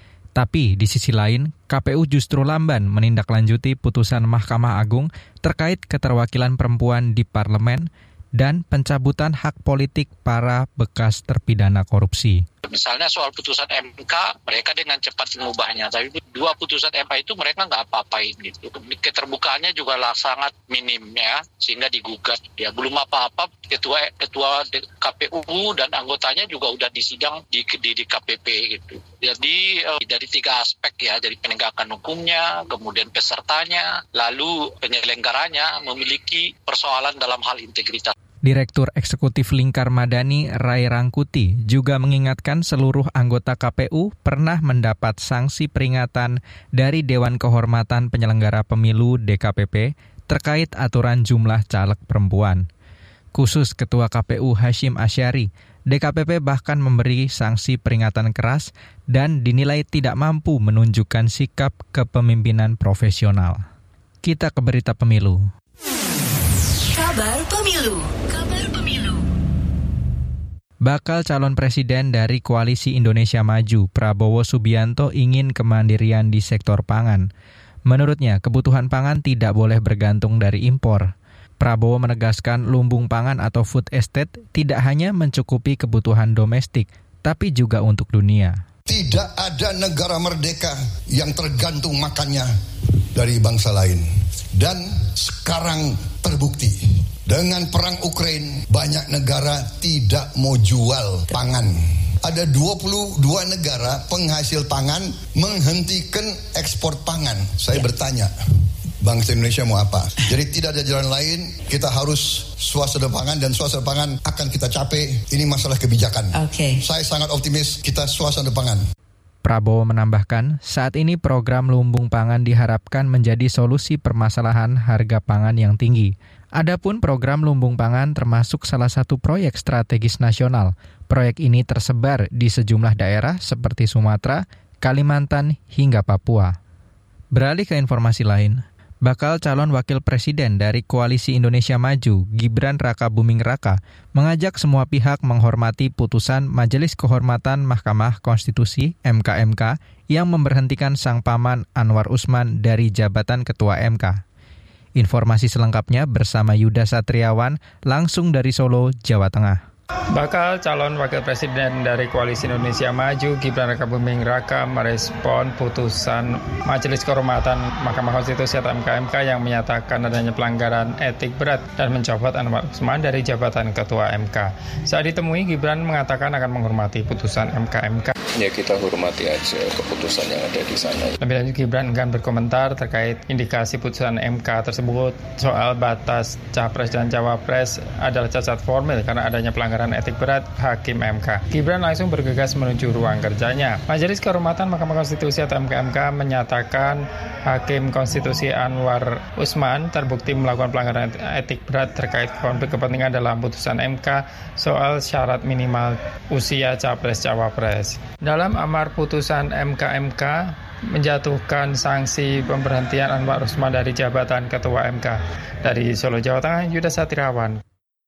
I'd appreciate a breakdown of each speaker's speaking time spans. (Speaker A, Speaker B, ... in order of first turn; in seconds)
Speaker A: 0.3-12.4, 38.4-52.6, 53.3-63.6, 64.2-65.5, 70.8-77.3, 77.9-88.6, 119.4-136.6, 137.3-154.2, 154.9-159.6
Speaker B: 12.6-38.1
Speaker C: 66.9-69.2, 116.4-116.8
Speaker D: 88.9-92.5, 93.1-108.3, 109.0-118.8
Speaker E: 160.1-178.1, 181.2-217.6
Speaker F: 178.3-181.2